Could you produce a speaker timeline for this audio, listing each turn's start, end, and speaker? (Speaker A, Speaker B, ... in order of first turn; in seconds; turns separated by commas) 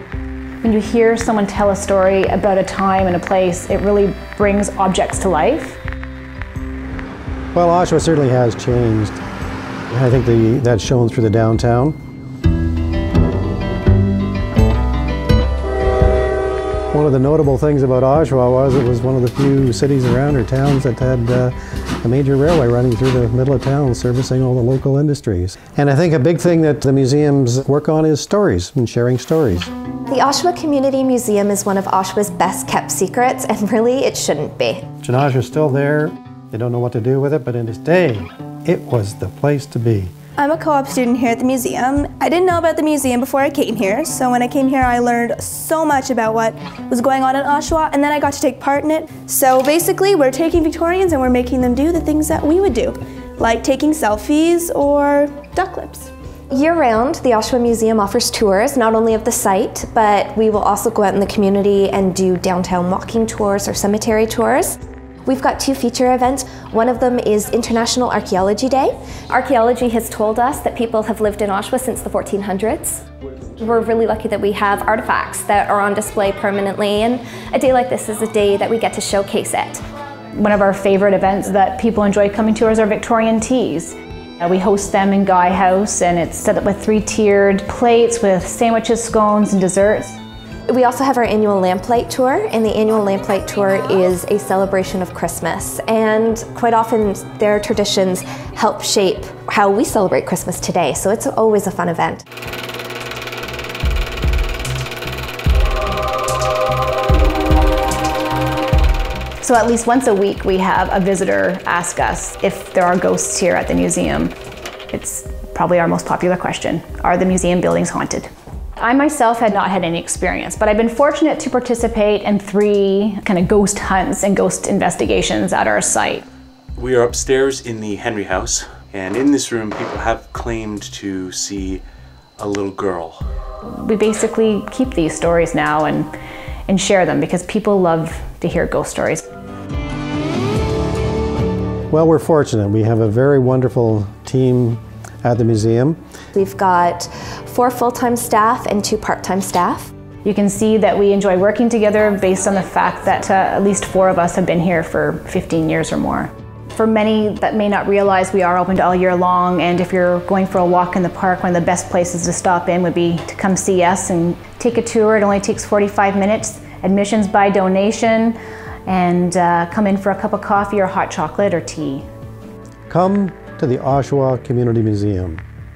Speaker A: 0.6-5.8, Speaker B: 7.5-9.2, Speaker B: 9.9-12.0, Speaker B: 16.9-29.7, Speaker C: 30.1-34.9, Speaker B: 35.0-40.1, Speaker D: 40.4-56.1, Speaker C: 56.5-73.0, Speaker C: 73.6-79.8, Speaker A: 80.3-90.2, Speaker C: 90.7-102.2, Speaker A: 109.4-114.3, Speaker A: 114.9-126.2, Speaker E: 126.8-131.8, Speaker E: 132.4-133.2, Speaker A: 133.6-136.1, Speaker A: 136.7-139.3, Speaker B: 141.9-146.0, Speaker C: 146.3-149.9, Speaker A: 150.2-172.0, Speaker B: 172.9-175.4